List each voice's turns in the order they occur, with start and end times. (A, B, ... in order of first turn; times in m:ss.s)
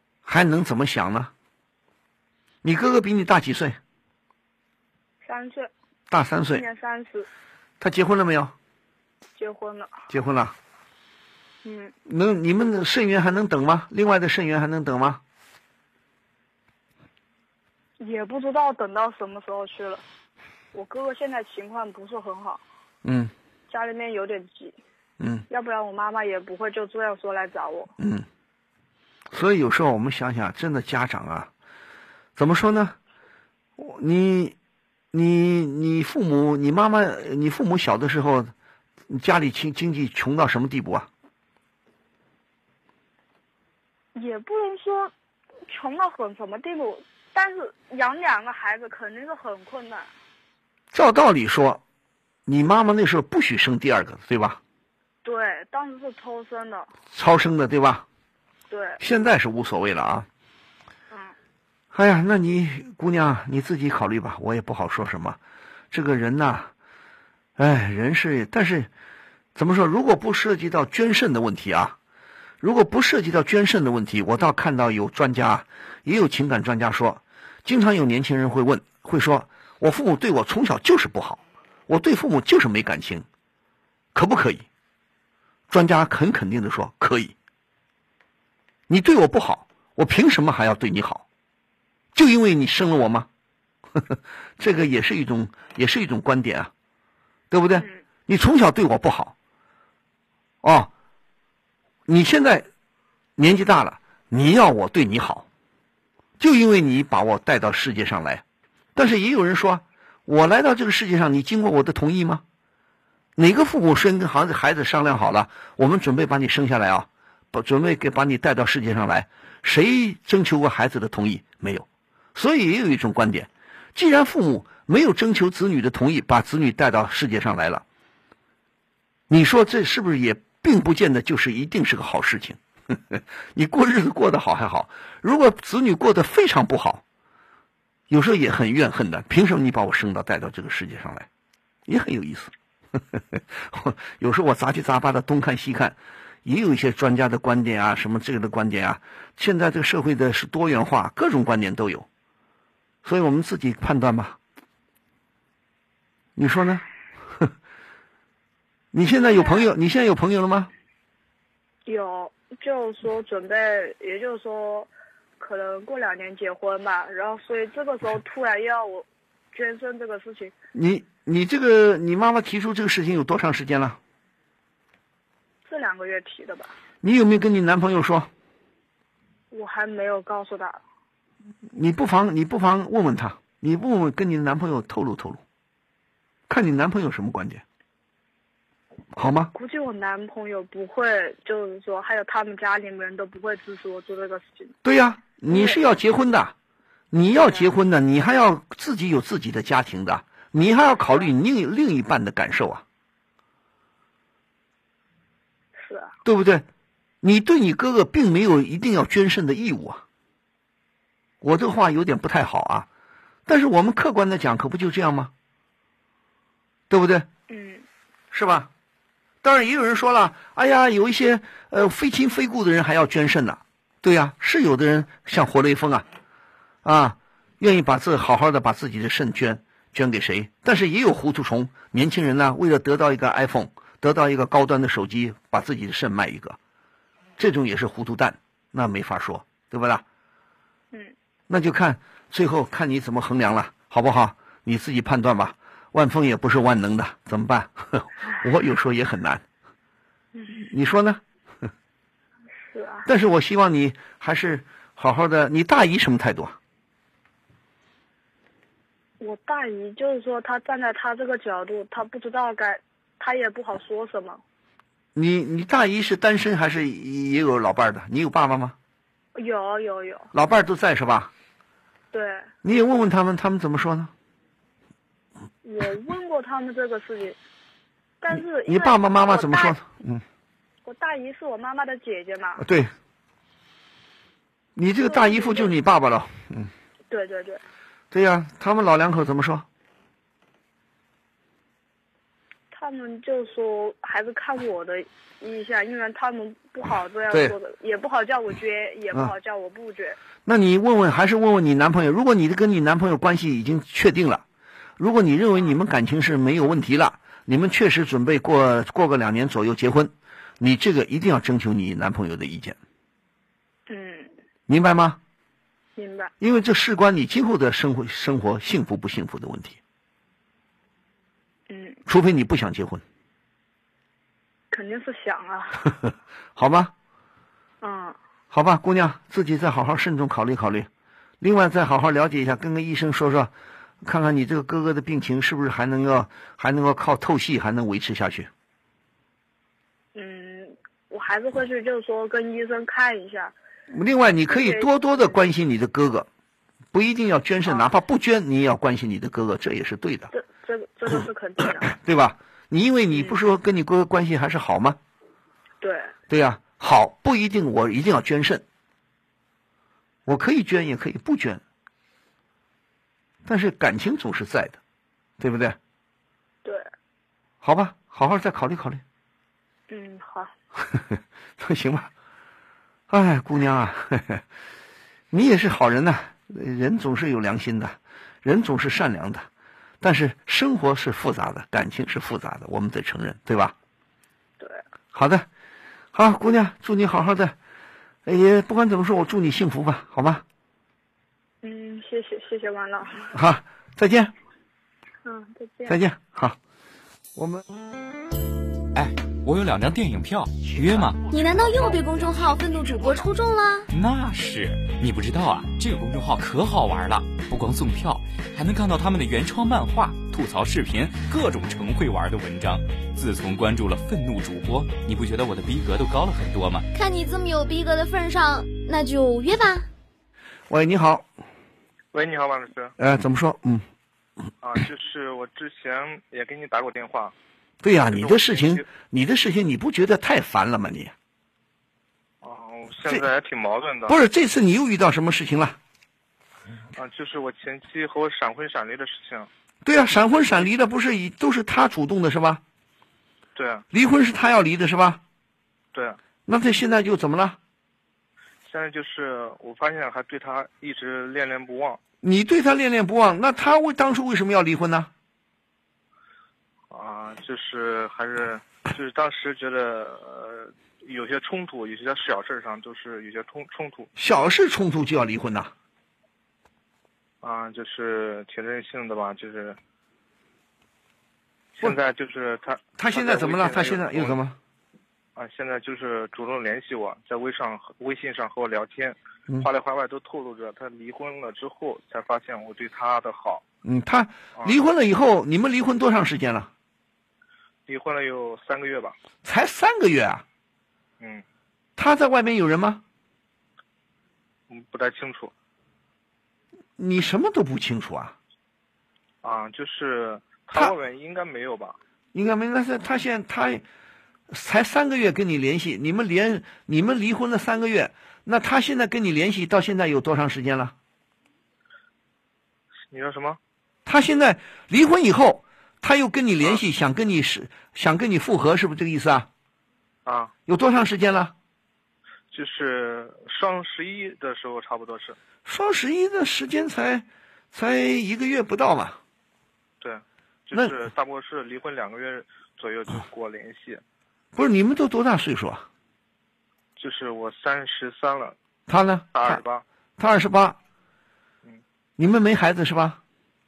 0:00.2-0:01.3 A
0:02.6-0:03.8 A
0:05.2-0:05.7 B
0:06.1-0:06.6 A
0:06.5-0:07.3 B
0:07.8-0:08.5 A
0:09.4-0:09.9 B
0:10.1-0:10.6 A
0:11.6-0:11.9 B
0:12.1-0:15.2 A
0:18.0-0:20.0 B
0:20.7-0:22.6 B
0:23.0-0:23.3 A
0:23.7-0:24.8 B
0:25.2-0:25.4 A
0:25.5-0:27.9 B
0:28.0-0:28.3 A
0:29.3-0:31.5 A
0:32.4-0:33.0 A
0:33.8-0:34.6 A
0:35.1-0:38.5 A
0:39.1-0:41.1 A
0:44.2-0:45.1 B
0:45.7-0:50.1 B
0:50.9-0:51.8 A
0:52.5-0:54.6 A
0:55.2-0:56.9 B
0:57.1-0:58.0 A
0:58.7-0:59.0 B
0:59.0-1:00.3 A
1:01.1-1:01.4 B
1:01.9-1:05.4 A
1:05.9-1:06.7 A
1:07.6-1:08.9 A
1:09.6-1:12.0 A
1:12.6-1:23.2 A
1:24.1-1:24.7 A
1:25.7-1:27.3 A
1:28.9-1:31.2 A
1:32.2-1:33.3 A
1:34.0-1:36.7 A
1:37.5-1:39.3 A
1:40.6-1:40.9 A
1:42.1-1:42.7 A
1:43.4-1:45.5 A
1:46.4-1:48.4 A
1:49.0-1:52.4 A
1:53.4-2:07.8 A
2:09.3-2:17.0 A
2:18.1-2:21.3 A
2:21.9-2:22.5 A
2:23.1-2:32.1 A
2:33.0-2:34.4 A
2:36.4-2:36.8 A
2:38.9-2:40.7 A
2:39.3-2:39.7 B
2:41.9-2:50.5 B
2:50.7-2:54.0 A
2:55.7-2:56.7 B
2:57.0-2:58.3 A
2:59.5-3:00.8 B
3:01.7-3:05.4 A
3:06.5-3:07.6 A
3:09.2-3:09.5 A
3:09.5-3:14.8 B
3:14.8-3:16.5 A
3:15.5-3:15.8 B
3:17.1-3:22.8 A
3:25.8-3:26.1 B
3:26.2-3:26.7 A
3:27.2-3:30.0 A
3:31.4-3:32.9 A
3:33.5-3:35.3 A
3:36.9-3:37.3 A
3:37.5-3:37.9 B
3:38.3-3:38.7 A
3:39.4-3:46.1 A
3:46.8-3:56.6 A
3:57.4-4:00.0 A
4:01.5-4:09.4 A
4:10.4-4:10.6 B
4:10.6-4:11.2 A
4:12.7-4:13.1 B
4:13.1-4:16.6 A
4:19.2-4:24.4 B
4:25.2-4:28.8 A
4:29.4-4:30.3 B
4:30.3-4:31.3 A
4:32.1-4:32.5 B
4:32.6-4:34.1 A
4:35.6-4:37.4 B
4:38.2-4:39.8 B
4:38.3-4:40.2 A
4:40.8-4:42.6 B
4:42.6-4:42.9 A
4:44.8-4:46.7 A
4:45.0-4:45.7 B
4:47.1-4:47.6 B
4:48.1-4:49.7 A
4:52.7-5:00.2 B
5:00.5-5:04.4 A
5:05.0-5:12.8 A
5:13.9-5:14.3 B
5:14.7-5:15.2 A
5:16.0-5:16.3 B
5:16.4-5:19.8 A
5:21.7-5:22.0 B
5:22.1-5:23.0 A
5:24.7-5:25.9 B
5:26.6-5:26.9 A
5:27.8-5:28.2 B
5:28.5-5:30.9 A
5:31.4-5:33.5 A
5:34.0-5:38.5 A
5:40.2-5:43.6 B
5:43.9-5:46.3 A
5:44.5-5:44.9 B
5:46.9-5:50.3 A
5:50.3-5:51.9 B
5:51.8-5:55.0 A
5:53.1-5:53.4 B
5:55.8-5:56.1 B
5:56.3-5:58.6 A
6:00.3-6:01.6 A
6:03.4-6:04.8 A
6:05.4-6:05.8 A
6:07.6-6:09.0 A
6:09.9-6:10.5 B
6:11.6-6:12.1 A
6:13.1-6:14.4 A
6:15.3-6:19.5 A
6:20.0-6:23.7 A
6:25.1-6:25.5 A
6:26.1-6:27.6 A
6:28.3-6:30.4 A
6:31.6-6:33.3 B
6:33.3-6:34.3 A
6:35.2-6:36.0 B
6:35.9-6:36.6 A
6:37.4-6:37.6 A
6:38.9-6:41.2 C
6:41.3-6:43.9 D
6:43.9-6:56.9 C
6:56.9-6:59.9 D
7:00.7-7:01.3 A
7:02.1-7:02.9 E
7:03.0-7:03.8 A
7:04.6-7:07.4 E
7:07.8-7:11.1 A
7:08.1-7:08.9 E
7:12.4-7:14.2 E
7:14.1-7:15.8 A
7:17.0-7:19.5 E
7:19.8-7:22.6 A
7:23.6-7:23.8 E
7:23.9-7:25.2 A
7:25.9-7:26.2 E
7:26.5-7:27.6 A
7:28.6-7:32.0 E
7:32.2-7:35.1 A
7:36.9-7:44.1 E
7:44.2-7:45.7 A
7:47.4-7:49.8 E
7:51.8-7:54.4 E
7:53.0-7:54.6 A
7:55.4-8:03.6 E
8:03.8-8:06.7 A
8:07.9-8:09.2 E
8:09.4-8:10.4 A
8:12.0-8:13.0 A
8:14.7-8:15.5 E
8:17.0-8:18.4 A
8:19.4-8:22.0 E
8:22.3-8:23.8 A
8:24.5-8:30.9 A
8:33.1-8:33.6 E
8:34.1-8:39.5 A
8:40.3-8:40.5 E
8:40.7-8:41.5 A
8:42.5-8:45.4 E
8:45.7-8:49.2 A
8:50.0-8:54.0 E
8:54.6-8:55.9 A
8:57.0-8:58.6 E
8:58.9-8:59.6 A
8:59.3-8:59.8 E
9:00.2-9:00.8 A
9:02.2-9:03.2 A